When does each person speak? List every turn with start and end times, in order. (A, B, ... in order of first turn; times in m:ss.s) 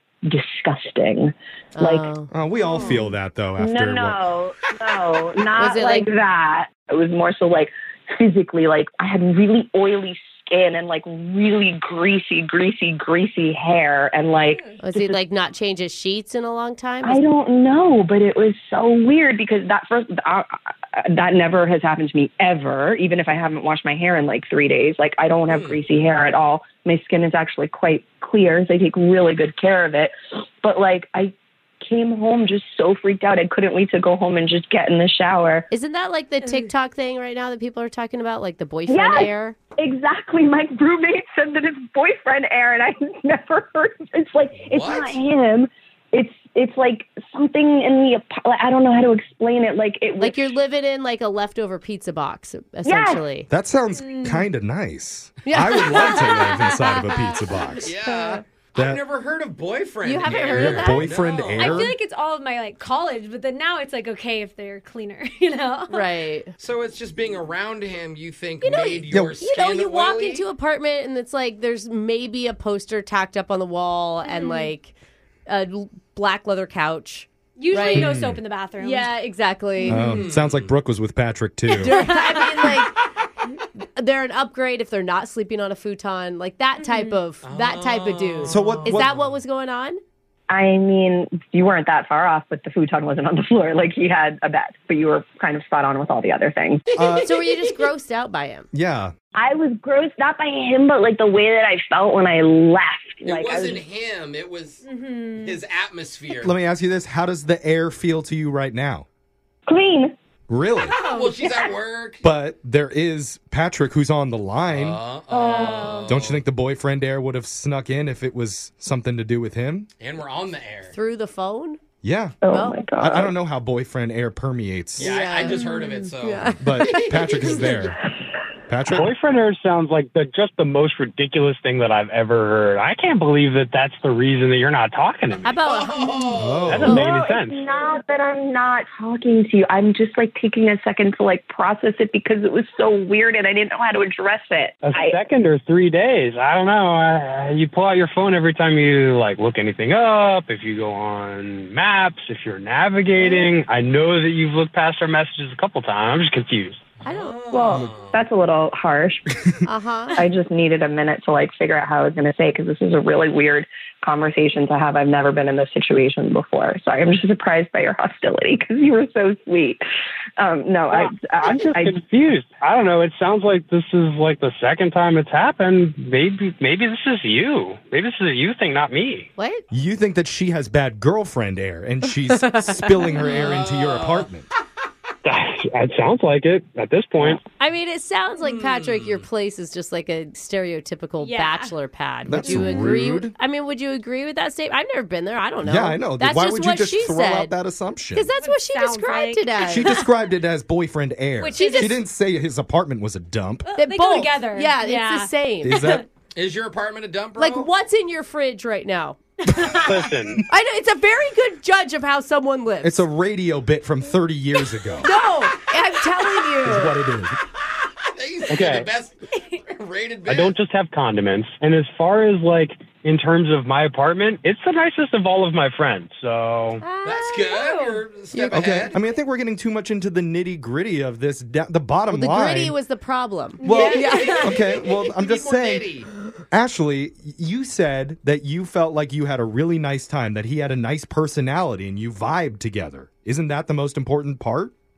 0:00.3-0:02.1 A
0:01.8-0:02.3 B
0:02.3-0:04.3 C
0:02.7-0:03.0 A
0:03.6-0:15.2 A
0:05.6-0:06.1 B
0:14.8-0:17.2 B
0:17.0-0:35.7 A
0:25.5-0:25.8 D
0:35.7-0:39.6 B
0:38.9-0:50.5 A
0:44.5-0:45.2 D
0:50.2-0:53.5 B
0:52.9-0:53.2 A
0:53.5-0:57.9 C
0:54.0-0:54.5 E
0:55.5-0:58.4 B
0:57.8-1:01.8 D
0:58.8-0:59.1 C
1:00.0-1:01.2 B
1:00.2-1:02.0 C
1:01.5-1:06.1 E
1:05.9-1:06.5 B
1:06.6-1:10.5 D
1:08.6-1:14.9 B
1:09.1-1:09.4 C
1:14.2-1:14.7 E
1:15.5-1:18.2 B
1:17.6-1:19.1 E
1:17.9-1:18.4 C
1:18.8-1:20.2 B
1:19.9-1:22.0 C
1:19.9-1:20.8 D
1:21.7-1:23.0 B
1:21.8-1:22.7 E
1:23.8-1:30.0 B
1:26.8-1:27.2 E
1:27.4-1:29.0 D
1:28.5-1:29.2 C
1:30.5-1:36.9 A
1:37.0-1:37.3 C
1:37.2-1:38.7 B
1:38.7-1:39.1 C
1:39.4-1:43.8 A
1:43.2-1:46.6 D
1:44.8-1:45.6 E
1:46.4-1:49.1 C
1:49.7-1:50.1 A
1:50.5-1:51.0 C
1:50.9-1:51.4 E
1:51.0-1:52.2 D
1:51.4-1:51.7 A
1:52.2-1:55.0 C
1:54.7-1:56.4 D
1:55.3-1:56.1 A
1:56.1-1:59.9 C
2:00.0-2:01.0 D
2:00.9-2:01.8 B
2:02.0-2:02.4 C
2:02.4-2:03.3 A
2:02.5-2:02.8 B
2:03.0-2:05.2 C
2:05.0-2:07.8 D
2:05.0-2:07.7 B
2:06.6-2:08.0 C
2:08.7-2:09.1 C
2:08.9-2:15.6 F
2:15.4-2:17.1 B
2:15.6-2:17.0 D
2:16.3-2:17.0 C
2:16.7-2:17.6 F
2:16.8-2:25.2 A
2:24.8-2:36.8 F
2:37.0-2:38.3 D
2:37.0-2:37.4 B
2:37.5-2:39.5 A
2:39.6-2:40.3 B
2:40.2-2:49.8 A
2:50.4-2:52.0 A
2:50.9-2:59.3 F
2:59.4-2:59.6 B
2:59.7-3:04.5 C
3:02.4-3:03.6 B
3:03.2-3:04.3 D
3:05.2-3:07.4 F
3:07.2-3:17.6 B
3:08.4-3:09.3 D
3:11.2-3:11.7 E
3:12.3-3:13.3 C
3:15.6-3:18.3 C
3:18.1-3:20.0 B
3:18.4-3:20.1 E
3:19.6-3:23.7 C
3:21.4-3:22.0 E
3:23.7-3:26.0 E
3:23.8-3:25.9 B
3:25.6-3:26.0 C
3:26.3-3:27.7 D
3:27.4-3:29.2 B
3:29.4-3:30.0 E
3:29.8-3:30.4 F
3:30.5-3:33.1 B
3:32.8-3:35.1 C
3:35.0-3:37.0 B
3:36.6-3:37.4 C
3:37.8-3:40.6 D
3:38.5-3:38.9 F
3:40.3-3:46.8 F
3:46.8-3:47.6 B
3:47.0-3:49.0 D
3:47.4-3:48.0 E
3:48.3-3:48.9 B
3:48.5-3:52.8 C
3:52.1-3:54.6 B
3:53.6-3:54.4 E
3:53.6-3:55.9 C
3:54.2-3:56.1 D
3:56.5-4:04.7 C